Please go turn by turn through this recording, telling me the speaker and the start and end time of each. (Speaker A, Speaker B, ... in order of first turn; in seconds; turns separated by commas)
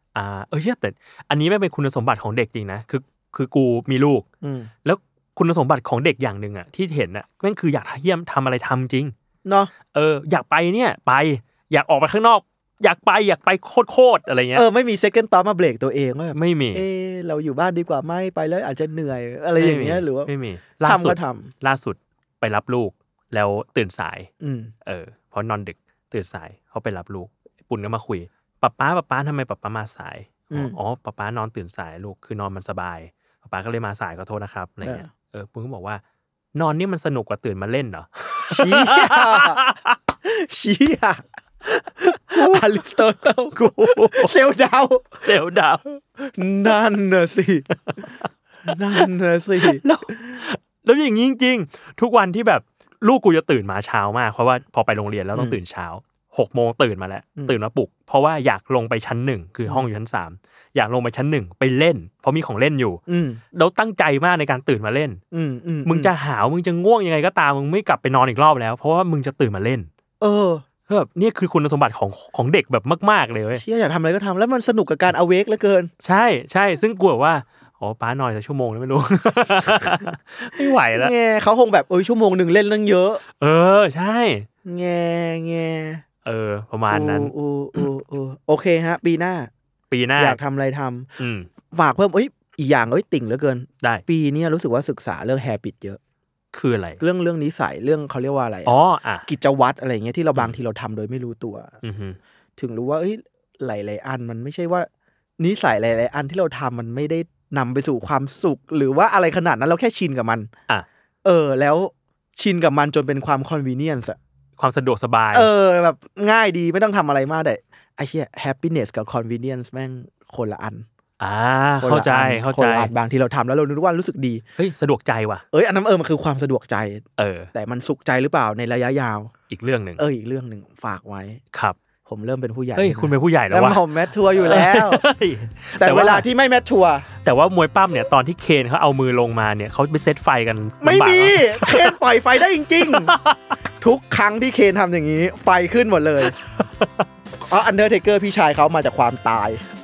Speaker A: 0.1-4.3, Speaker B: 4.4-4.7, Speaker A: 4.8-9.1, Speaker B: 9.4-9.7, Speaker A: 9.9-14.7, Speaker B: 14.6-20.3, Speaker A: 16.3-16.8, Speaker A: 19.6-24.3, Speaker B: 20.8-21.5, Speaker B: 24.4-24.7, Speaker A: 24.9-36.0, Speaker B: 30.5-30.8, Speaker B: 34.8-35.1, Speaker A: 36.5-40.0, Speaker B: 38.5-39.6, Speaker B: 40.2-41.2, Speaker B: 41.8-45.3, Speaker A: 42.1-42.8, Speaker A: 43.5-44.3, Speaker A: 45.2-45.8, Speaker B: 46.2-48.0, Speaker B: 48.6-50.4, Speaker A: 49.6-63.0, Speaker B: 63.1-63.4, Speaker A: 63.5-65.2, Speaker B: 65.3-66.1, Speaker A: 65.8-69.9, Speaker B: 70.2-70.6, Speaker A: 70.9-73.6, Speaker B: 73.5-75.9, Speaker A: 76.0-81.1, Speaker B: 79.7-80.0, Speaker B: 80.6-83.2, Speaker A: 83.3-84.5, Speaker B: 84.7-86.0, Speaker A: 86.2-87.8, Speaker B: 86.9-89.5, Speaker A: 89.9-90.4, Speaker B: 90.2-91.1, Speaker A: 91.2-91.5, Speaker B: 91.7-96.0, Speaker A: 96.5-97.0, Speaker B: 97.0-101.7, Speaker A: 98.7-99.3, Speaker A: 101.8-102.2, Speaker B: 102.6-104.9, Speaker B: 105.4-110.5, Speaker B: 111.2-114.2, Speaker A: 114.6-115.5, Speaker B: 115.3-120.9, Speaker A: 121.2-122.9, Speaker B: 121.8-124.4, Speaker A: 124.6-125.4, Speaker B: 125.5-129.3, Speaker A: 127.2-127.5, Speaker A: 129.5-130.0, Speaker B: 130.0-131.4, Speaker A: 131.5-131.8, Speaker B: 132.1-135.0, Speaker A: 132.8-133.8, Speaker A: 134.4-136.3, Speaker B: 135.8-137.1, Speaker A: 137.1-141.9, Speaker B: 140.8-143.1, Speaker A: 142.8-143.5, Speaker B: 143.8-146.4, Speaker A: 146.4-147.1, Speaker B: 147.4-149.6